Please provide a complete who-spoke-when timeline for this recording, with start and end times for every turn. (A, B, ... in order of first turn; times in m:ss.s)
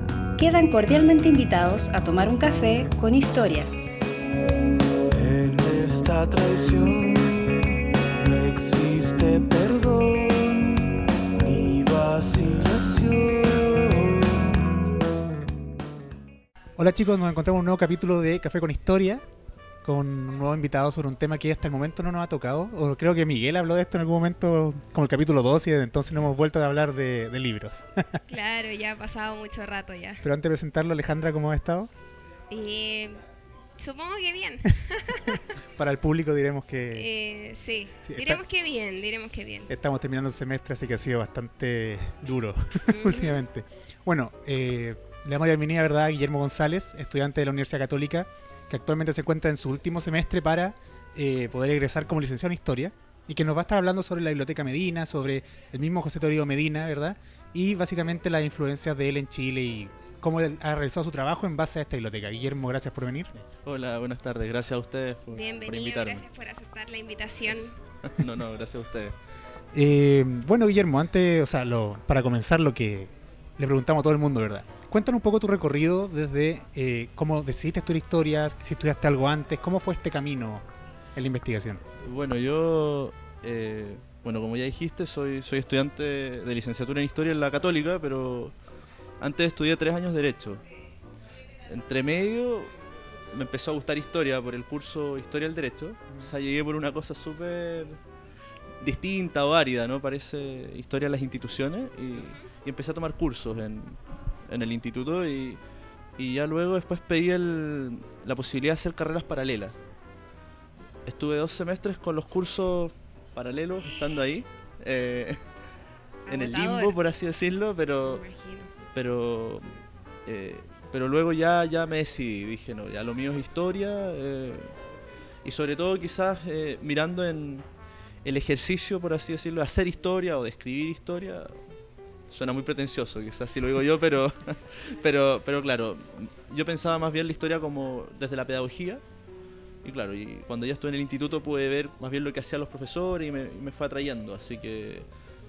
0:00.4-0:03.7 A
0:05.1-0:07.6 B
0:08.2-0:14.8 B
0:16.8-0:19.3 C
0:19.8-0:28.2 C
0:28.3-0:30.2 D
0:30.2-0:31.9 C
0:32.5-0:33.2 D
0:33.8-0:35.6 D
0:35.6-0:37.1 C
0:36.9-0:39.7 D
0:38.1-0:38.4 C
0:39.7-1:03.3 C
0:42.9-0:43.4 D
1:03.6-1:06.2 E
1:05.3-1:07.8 D
1:08.0-1:09.2 E
1:09.7-1:21.8 C
1:22.0-1:28.5 E
1:29.2-1:30.6 E
1:31.7-1:32.7 E
1:33.3-1:38.0 E
1:38.8-1:45.6 E
1:46.2-1:49.8 E
1:51.1-1:55.4 E
1:56.3-1:57.0 D
1:56.3-1:58.2 E
1:58.0-1:58.7 D
1:59.0-1:59.7 E
2:00.3-2:04.7 E
2:05.4-2:07.6 E
2:08.2-2:11.6 E
2:12.3-2:19.0 E
2:19.8-2:25.1 E